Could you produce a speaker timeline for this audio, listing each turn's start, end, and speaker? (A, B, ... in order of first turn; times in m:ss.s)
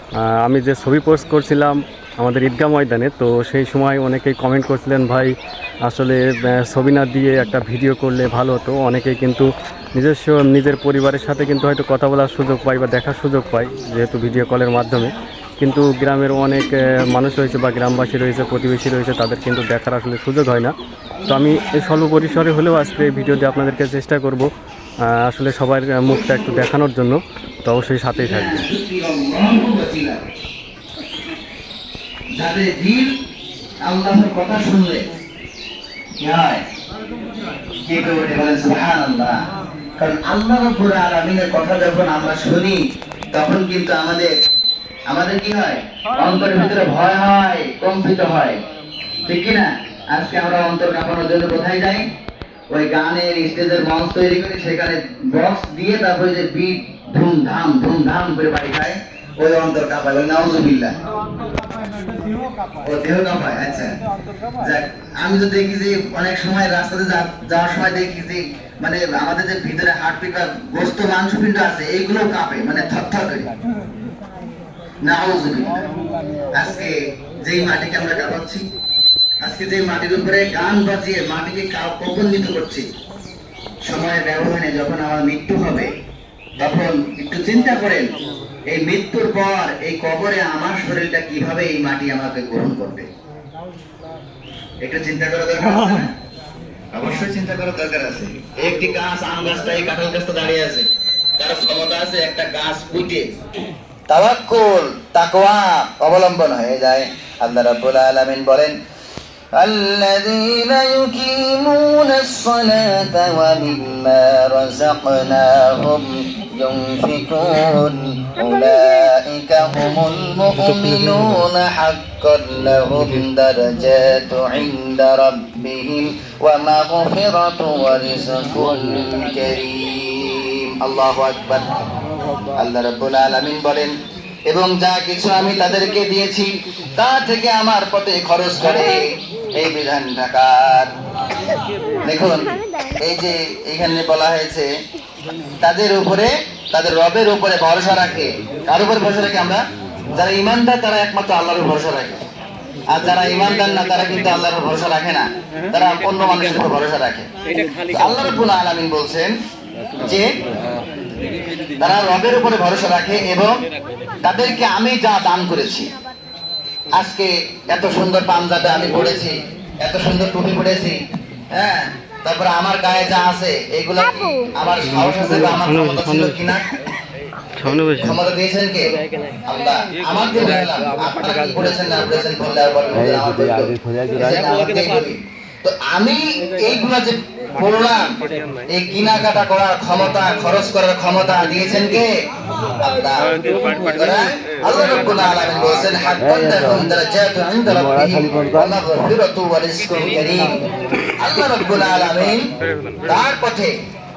0:00.2-0:05.3 A
0:05.8-0:20.7 A
0:21.2-0:24.5 A
0:25.0-0:28.6 A
0:26.0-0:26.7 B
0:28.1-0:30.2 B
0:32.3-0:33.1 B
0:33.8-0:35.0 B
0:36.2-0:36.6 B
0:37.8-0:39.4 B
0:40.0-0:44.3 B
0:45.1-0:48.6 B
0:49.2-0:52.1 B
0:52.7-1:00.9 B
1:02.8-1:04.0 B
1:04.6-1:13.5 B
1:15.0-1:15.8 B
1:16.5-1:18.6 B
1:19.4-1:22.9 B
1:23.8-1:25.9 B
1:26.6-1:28.2 B
1:28.7-1:33.1 B
1:34.8-1:36.1 B
1:36.9-1:43.3 B
1:44.1-1:48.8 B
1:49.6-2:11.8 B
2:00.6-2:01.2 A
2:12.5-2:13.9 B
2:14.5-2:20.9 B
2:22.0-2:24.6 B
2:25.6-2:32.2 B
2:32.9-2:37.3 B
2:37.8-2:39.4 B
2:40.0-2:40.3 B
2:41.8-2:43.5 B
2:44.2-2:45.9 B
2:47.0-2:51.0 B
2:51.5-2:56.7 B
2:54.9-2:56.5 A
2:57.5-2:58.2 A
2:57.6-3:12.2 B
3:12.8-3:22.5 B
3:22.6-3:23.0 A
3:23.0-3:23.8 B